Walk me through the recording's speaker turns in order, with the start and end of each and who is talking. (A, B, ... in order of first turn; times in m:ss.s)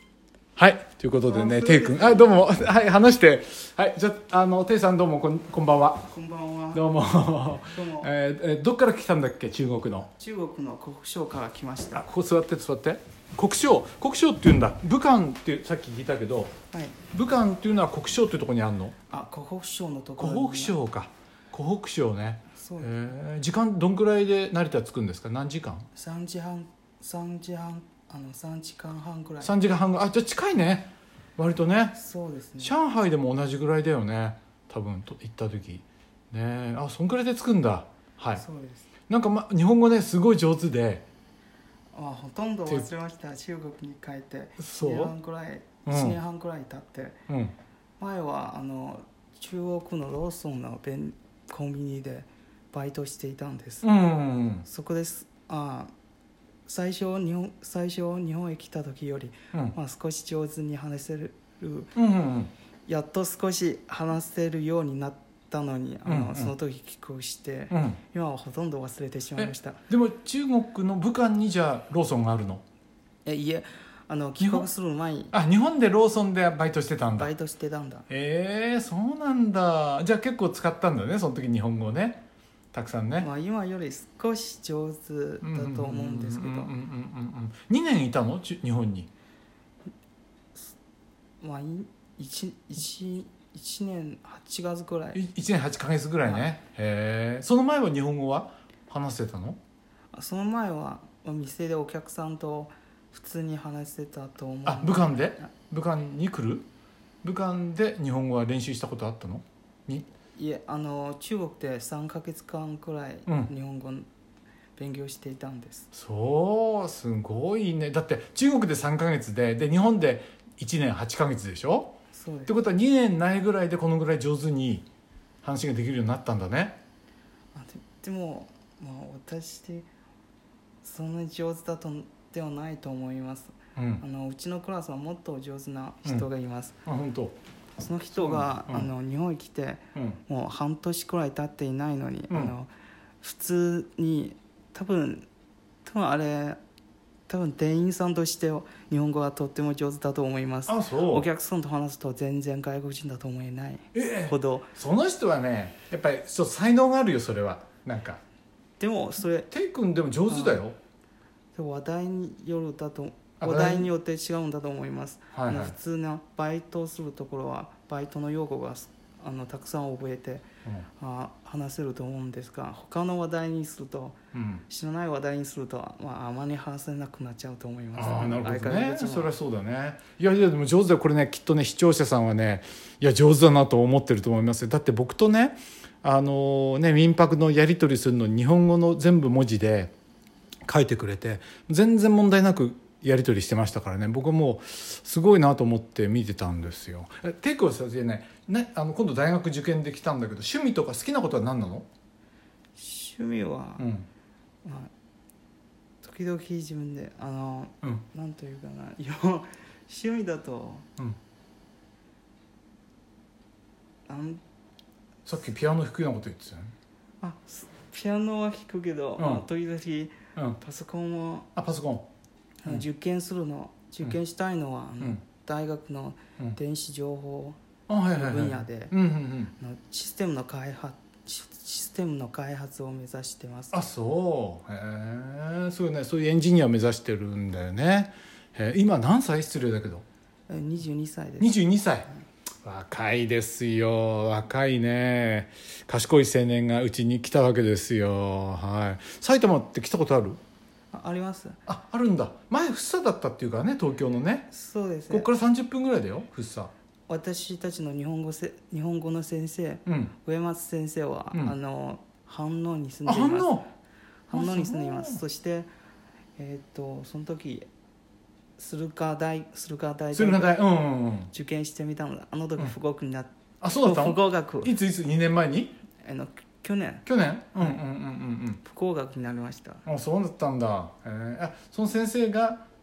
0:00.6-0:06.1 A
0:01.2-0:02.3 B
0:06.0-0:06.8 B
0:06.7-0:10.1 A
0:07.6-0:08.1 B
0:10.2-0:12.0 B
0:11.9-0:16.6 A
0:16.7-0:17.0 B
0:17.1-0:19.0 A
0:19.1-0:20.8 B
0:20.2-0:25.9 A
0:22.6-0:23.1 B
0:25.9-0:29.5 B
0:29.4-0:32.0 A
0:31.9-0:32.7 B
0:32.6-0:38.4 A
0:38.4-0:38.9 B
0:39.1-0:41.1 A
0:41.9-0:47.2 B
0:44.6-0:45.1 A
0:45.8-0:46.2 A
0:47.3-0:47.5 A
0:48.0-0:53.9 B
0:53.8-0:54.6 A
0:54.6-0:55.9 B
0:56.6-1:01.9 B
1:01.9-1:02.5 A
1:02.8-1:09.8 B
1:06.0-1:06.5 A
1:07.7-1:08.0 A
1:09.4-1:12.6 A
1:13.2-1:15.3 B
1:14.4-1:14.7 A
1:15.3-1:17.3 A
1:17.2-1:18.1 B
1:18.1-1:23.3 A
1:23.2-1:26.7 B
1:25.4-1:29.1 A
1:31.4-1:35.2 B
1:35.1-1:39.6 A
1:36.2-1:36.5 B
1:40.1-1:45.5 B
1:44.6-1:46.6 A
1:47.2-1:50.1 A
1:50.3-1:54.1 B
1:54.8-1:55.9 B
1:55.9-2:04.9 A
2:02.1-2:02.5 B
2:05.4-2:06.8 A
2:07.5-2:09.9 B
2:10.8-2:16.8 B
2:13.8-2:14.0 A
2:16.8-2:17.4 A
2:17.8-2:22.7 B
2:18.1-2:18.9 A
2:19.9-2:20.2 A
2:23.2-2:25.3 B
2:25.8-2:26.6 B
2:27.3-2:34.7 B
2:30.7-2:31.3 A
2:33.9-2:38.2 A
2:38.8-2:39.5 B
2:39.5-2:40.8 A
2:40.3-2:40.6 B
2:41.5-2:50.4 B
2:43.4-2:43.9 A
2:45.3-2:45.7 A
2:51.0-2:54.2 B
2:54.3-2:54.6 A
2:54.7-2:59.3 B
2:57.9-3:09.9 A
3:10.7-3:21.9 A
3:22.8-3:23.8 B
3:23.8-3:24.1 A
3:24.6-3:24.9 B
3:26.0-3:30.9 B
3:34.0-3:34.4 B
3:35.2-3:36.7 A
3:37.2-3:41.5 B
3:39.2-3:39.4 A
3:41.5-3:42.1 A
3:42.6-3:47.6 B
3:47.9-3:49.5 A
3:48.1-3:48.9 B
3:49.6-3:53.8 B
3:53.7-4:00.0 A
4:00.5-4:01.5 B
4:01.4-4:02.1 A
4:02.6-4:10.4 A
4:10.9-4:11.6 B
4:11.7-4:14.5 A
4:14.5-4:15.3 B
4:15.1-4:16.7 A
4:17.1-4:23.6 B
4:19.9-4:20.1 A
4:23.0-4:23.7 A
4:24.3-4:25.7 B
4:24.3-4:25.2 A
4:26.4-4:27.7 B
4:28.6-4:30.6 B
4:30.1-4:31.3 A
4:31.3-4:34.7 B
4:33.6-4:35.8 A
4:36.0-4:37.0 B
4:37.0-4:38.6 A
4:38.6-4:39.8 B
4:39.8-4:42.6 A